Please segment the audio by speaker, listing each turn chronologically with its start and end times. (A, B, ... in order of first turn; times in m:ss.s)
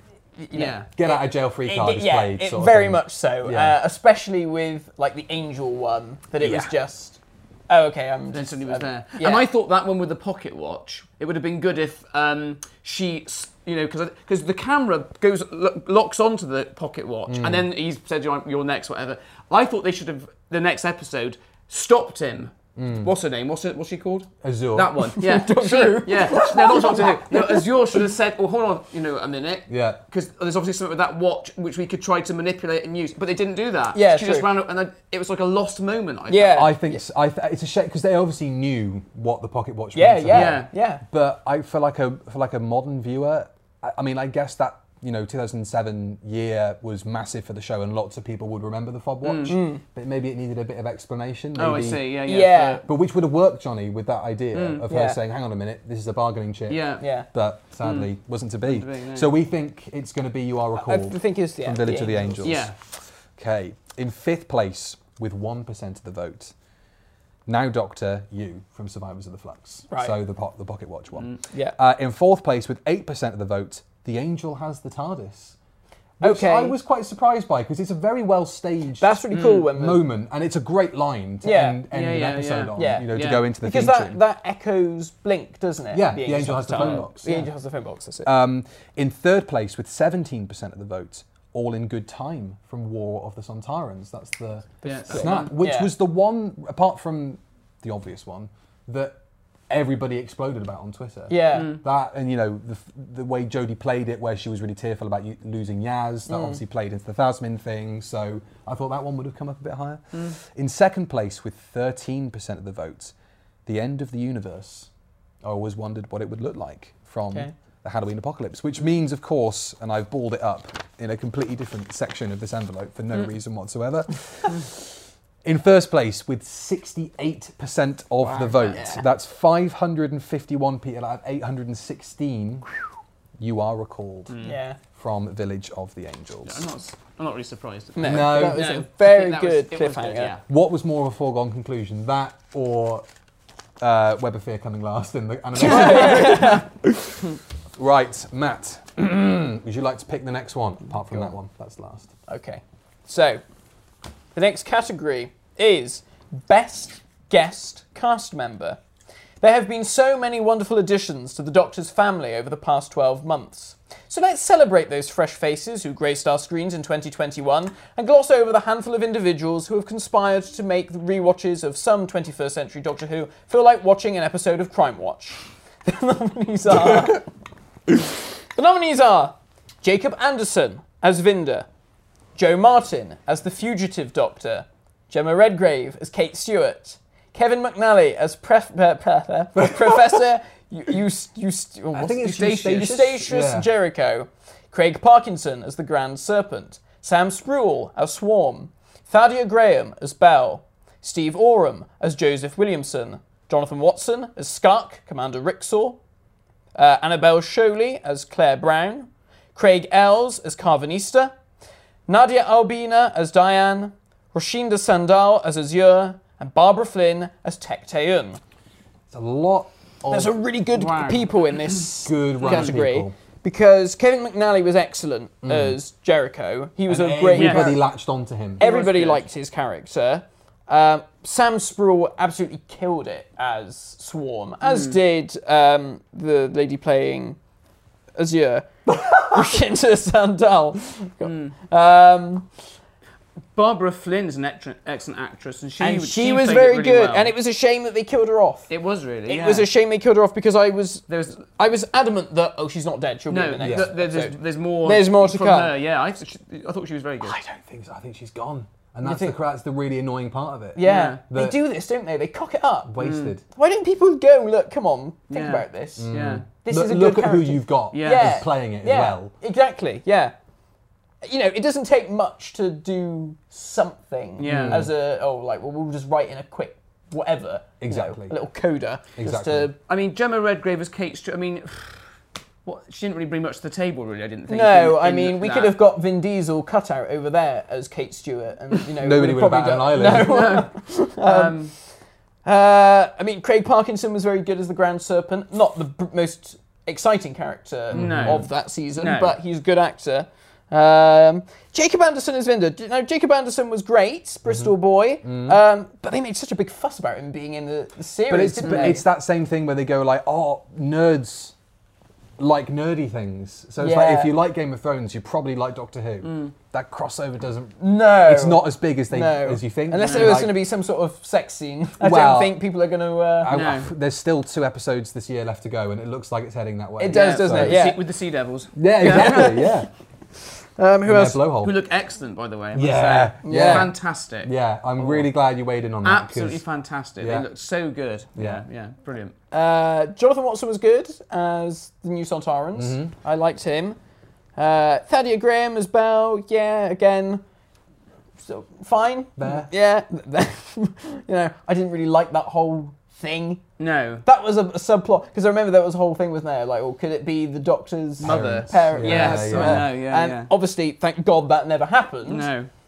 0:00.4-0:09.5 A
0:00.5-0:00.9 B
0:01.0-0:03.8 C
0:06.4-0:06.7 C
0:08.3-0:36.7 B
0:17.3-0:17.7 C
0:22.8-0:23.1 C
0:24.4-0:25.1 C
0:25.2-0:27.7 A
0:29.7-0:30.0 C
0:33.9-0:34.5 A
0:36.3-0:37.0 A
0:36.5-0:52.1 C
0:40.0-0:41.0 A
0:40.3-0:40.7 B
0:49.2-0:49.6 B
0:49.5-0:49.8 A
0:51.6-0:52.8 B
0:52.3-0:52.8 A
0:52.8-1:02.8 C
0:54.5-0:54.8 B
0:54.9-0:55.2 A
0:56.7-0:57.0 B
0:57.0-0:57.3 A
0:57.8-0:59.3 B
1:00.8-1:02.5 A
1:02.4-1:02.8 B
1:03.4-1:06.5 C
1:07.5-1:15.6 C
1:09.9-1:10.2 A
1:16.2-1:24.2 C
1:16.2-1:16.8 A
1:19.0-1:20.0 A
1:19.3-1:19.7 B
1:21.4-1:21.8 A
1:21.9-1:23.5 B
1:22.8-1:28.3 A
1:25.9-1:27.5 C
1:26.8-1:27.1 B
1:28.2-1:39.2 C
1:34.8-1:35.9 A
1:34.8-1:35.5 B
1:39.7-1:53.1 C
1:41.3-1:41.8 A
1:41.5-1:41.8 B
1:46.3-1:46.6 A
1:53.7-1:54.9 C
1:55.4-2:12.8 C
2:08.2-2:09.0 A
2:13.4-2:14.4 C
2:14.3-2:14.6 B
2:14.4-2:14.8 A
2:14.9-2:16.7 C
2:16.5-2:20.4 B
2:18.0-2:20.4 A
2:18.0-2:18.7 C
2:20.5-2:23.1 C
2:23.8-2:32.1 C
2:25.6-2:26.6 A
2:32.3-2:33.4 A
2:34.4-2:38.8 A
2:39.4-2:57.3 A
2:58.0-3:01.7 A
3:02.4-3:26.0 A
3:11.9-3:13.7 C
3:26.8-3:31.3 A
3:32.1-3:38.4 A
3:39.1-3:40.3 C
3:40.1-3:47.8 A
3:40.8-3:41.9 B
3:42.0-3:43.2 C
3:42.4-3:42.8 B
3:45.4-3:45.8 C
3:46.9-3:48.6 C
3:47.3-3:47.8 B
3:48.6-3:49.2 B
3:48.6-3:57.4 A
3:54.6-3:55.0 B
3:58.2-4:02.5 A
4:01.2-4:01.6 B
4:03.6-4:07.3 B
4:05.8-4:08.7 A
4:08.7-4:09.7 B
4:09.3-4:15.7 A
4:11.1-4:11.5 B
4:13.3-4:17.4 B
4:13.6-4:13.9 C
4:17.3-4:21.6 C
4:19.0-4:19.4 A
4:20.8-4:23.0 A
4:20.8-4:21.2 B
4:22.9-4:23.4 C
4:23.0-4:23.4 B
4:23.5-4:26.1 A
4:25.3-4:26.4 B
4:26.0-4:29.3 C
4:26.6-4:30.4 A
4:27.9-4:28.4 B
4:31.2-4:39.8 A
4:34.4-4:34.9 B
4:34.4-4:34.9 C
4:37.8-4:38.4 C
4:39.2-4:39.7 C
4:39.9-4:42.1 B
4:42.6-4:45.8 B
4:44.5-4:51.7 A
4:49.0-4:50.5 C
4:50.0-4:51.7 B
4:52.4-5:09.0 A
4:57.9-4:58.4 C
4:57.9-4:59.4 B
5:04.4-5:05.6 C
5:08.3-5:11.6 C
5:08.6-5:09.0 B
5:12.4-5:20.6 C
5:13.8-5:14.4 A
5:16.2-5:16.5 B
5:17.8-5:23.6 A
5:20.0-5:20.4 B
5:22.0-5:22.6 C
5:23.4-5:27.9 C
5:23.5-5:23.9 B
5:27.0-5:28.0 A
5:27.1-5:29.5 B
5:28.8-5:29.9 C
5:29.0-5:29.8 A
5:30.8-5:31.4 A
5:31.0-5:31.8 C
5:31.6-5:35.3 B
5:32.7-5:36.6 C
5:33.4-5:33.9 A
5:36.0-5:39.3 B
5:37.2-5:37.5 C
5:38.4-5:38.6 C
5:39.5-5:44.0 A
5:42.8-5:43.1 C
5:44.6-5:47.4 A
5:48.4-5:53.6 A
5:49.4-5:49.7 C
5:53.8-5:54.2 B
5:54.2-6:02.5 A
5:58.2-6:00.5 B
5:58.2-5:59.9 C
6:02.3-6:02.7 B